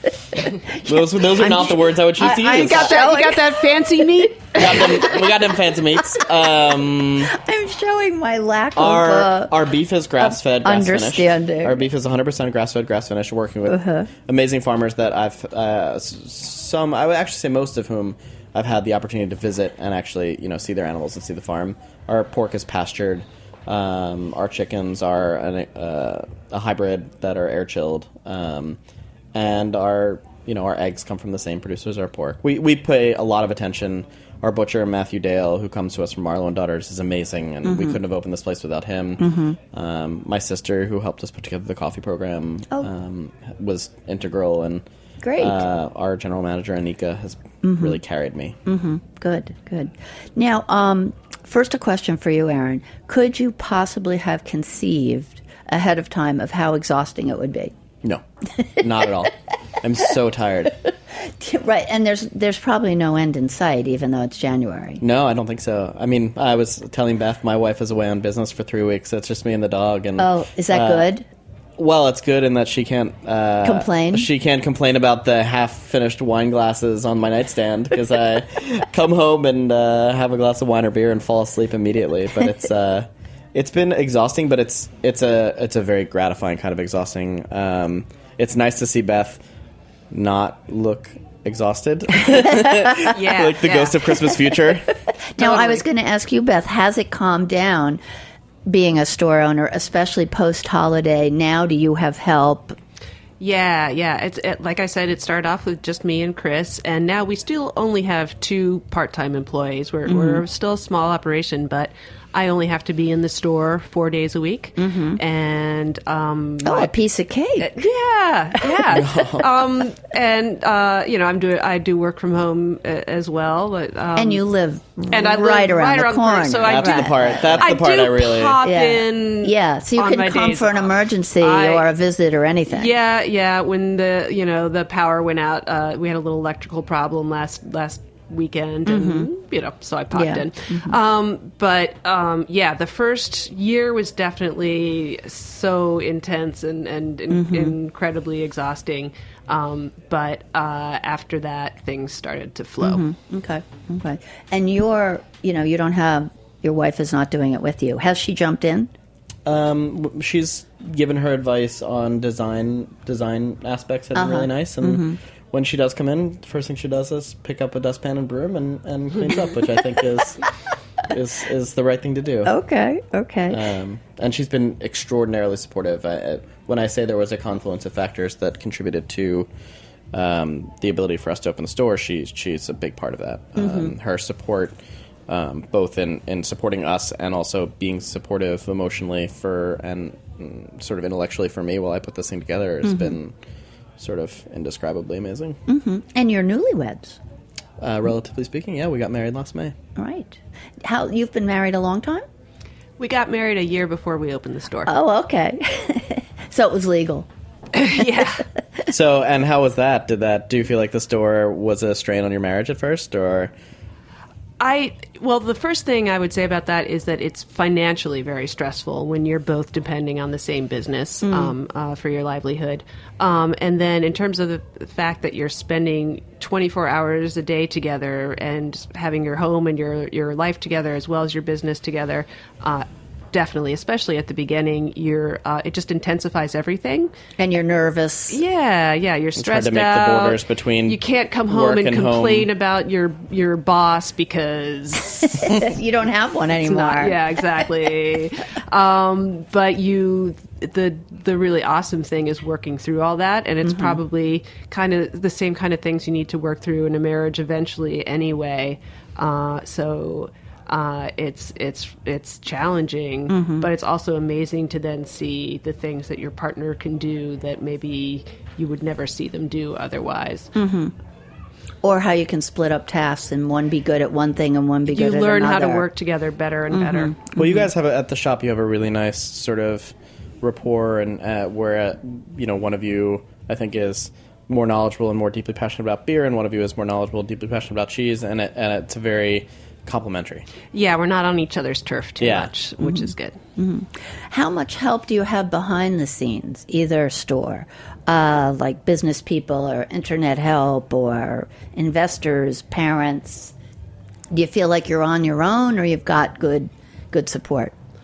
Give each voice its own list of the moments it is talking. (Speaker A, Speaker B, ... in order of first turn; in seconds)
Speaker A: 0.3-5.2, 7.3-9.6, 10.2-11.8, 13.7-14.1, 37.7-38.0, 39.2-39.6, 45.2-45.7, 47.6-48.0, 48.7-57.7, 61.2-65.0, 70.2-71.3, 73.6-74.3, 92.6-92.9, 95.3-98.0, 98.7-102.8, 110.1-110.4, 114.8-115.2, 116.6-117.8, 124.2-127.7, 128.6-132.9, 138.9-139.3, 140.1-141.0, 147.3-147.8, 152.8-158.9, 164.2-165.2, 172.5-173.6, 183.6-183.9, 192.8-193.1, 195.7-197.2, 200.0-202.3, 204.9-207.3, 221.2-221.5, 237.4-238.4, 245.4-247.2, 253.7-254.0, 263.3-263.7, 270.6-270.9, 271.8-275.9, 276.7-277.7, 292.8-303.5, 304.3-307.7
Speaker B: 0.8-3.1, 4.6-7.3, 8.8-28.8, 29.3-44.8, 45.4-48.6, 58.8-60.8, 65.0-71.1, 71.8-89.4, 90.1-94.9, 118.9-119.5, 126.6-128.6, 159.4-170.4, 171.1-172.5, 173.5-179.5, 180.1-184.8, 185.3-193.3, 194.0-195.6, 197.8-199.8, 208.9-213.5, 239.4-242.5, 277.4-290.5, 292.2-292.5
Speaker C: 2.3-5.2, 93.1-94.2, 95.4-95.8, 103.4-116.9, 117.6-124.4, 125.1-131.9, 132.7-153.0, 203.0-204.9, 207.7-208.4, 214.6-237.1, 238.3-245.6, 246.6-270.5, 274.9-277.2, 290.7-293.4